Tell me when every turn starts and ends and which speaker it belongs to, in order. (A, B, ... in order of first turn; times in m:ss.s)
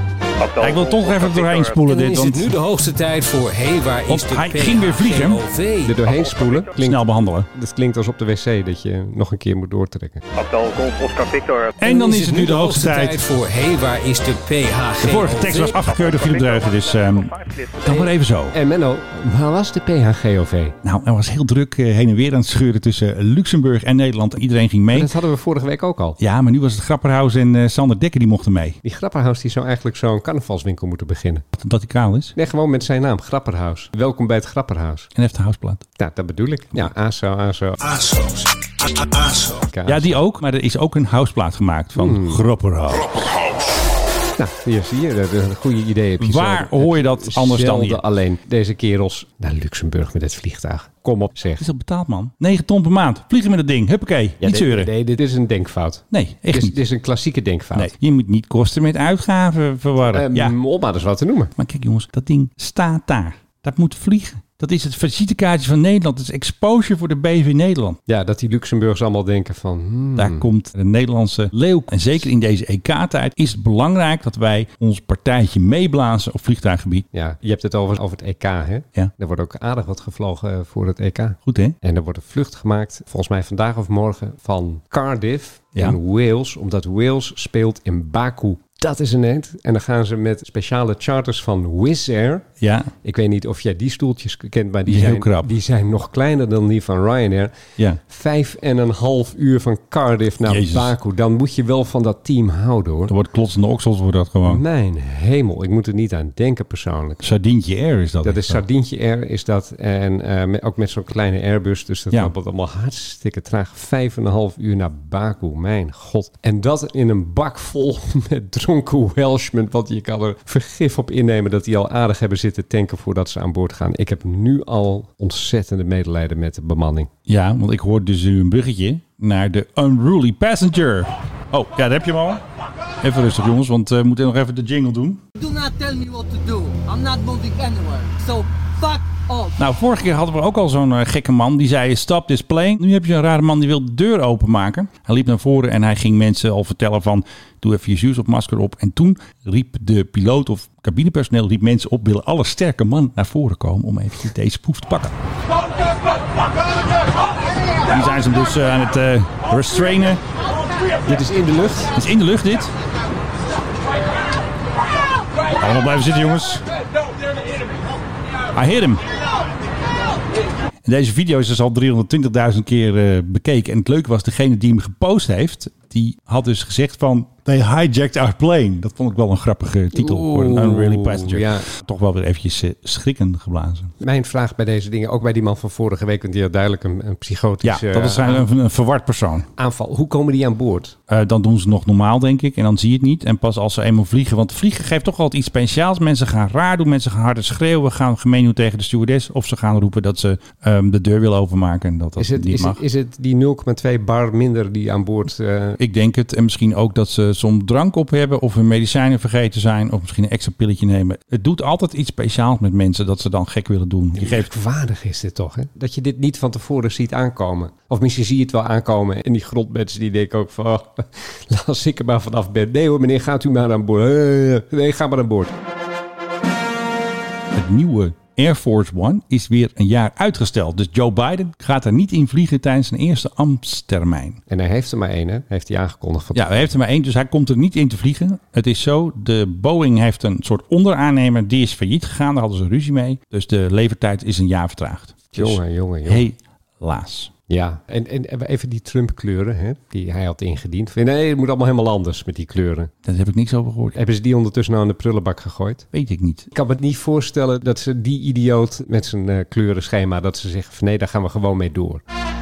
0:00.4-0:06.3 A
0:00.6-0:02.5 B
0:04.1-0:05.4 B
0:05.8-0:10.2 C
0:06.7-0:07.5 B
0:10.4-0:16.3 A
0:11.8-0:13.2 B
0:15.0-0:18.6 B
0:17.8-0:20.8 C
0:20.8-0:25.1 B
0:24.9-0:26.2 C
0:26.2-0:28.8 B
0:28.8-0:31.4 C
0:31.6-0:32.3 B
0:32.4-0:35.1 C
0:35.1-0:35.8 B
0:36.0-0:38.2 C
0:39.4-0:40.2 C
0:39.8-0:43.2 B
0:42.0-0:42.4 C
0:44.4-0:51.6 C
0:46.2-0:48.0 B
0:51.6-0:54.9 B
0:54.4-0:57.9 C
0:56.1-0:56.8 B
0:57.7-1:00.5 B
1:00.1-1:01.5 C
1:01.6-1:08.0 B
1:08.1-1:10.5 C
1:10.2-1:17.0 B
1:17.1-1:32.5 C
1:21.4-1:21.7 B
1:32.6-1:32.9 B
1:33.0-1:43.1 C
1:34.9-1:35.5 B
1:40.4-1:40.9 B
1:43.1-1:44.6 B
1:44.4-1:47.2 C
1:47.2-1:48.6 B
1:48.2-2:07.1 C
2:07.3-2:12.4 B
2:13.0-2:15.2 B
2:15.4-2:19.5 D
2:19.6-2:35.1 B
2:37.8-2:40.2 B
2:41.0-2:41.9 C
2:41.9-2:42.7 B
2:45.5-2:46.6 B
2:48.5-2:49.0 B
2:50.8-3:03.9 B
2:59.9-3:01.7 C
3:04.0-3:08.5 C
3:07.6-3:09.5 B
3:09.6-3:11.0 C
3:11.1-3:22.8 B
3:22.2-3:25.8 C
3:25.8-3:34.5 B
3:34.2-3:45.5 C
3:47.5-3:54.4 B
3:54.5-3:56.7 C
3:56.3-4:07.3 B
4:05.3-4:06.2 C
4:07.5-4:12.9 C
4:13.0-4:14.0 B
4:13.9-4:15.8 C
4:15.9-4:16.5 B
4:16.5-4:22.0 C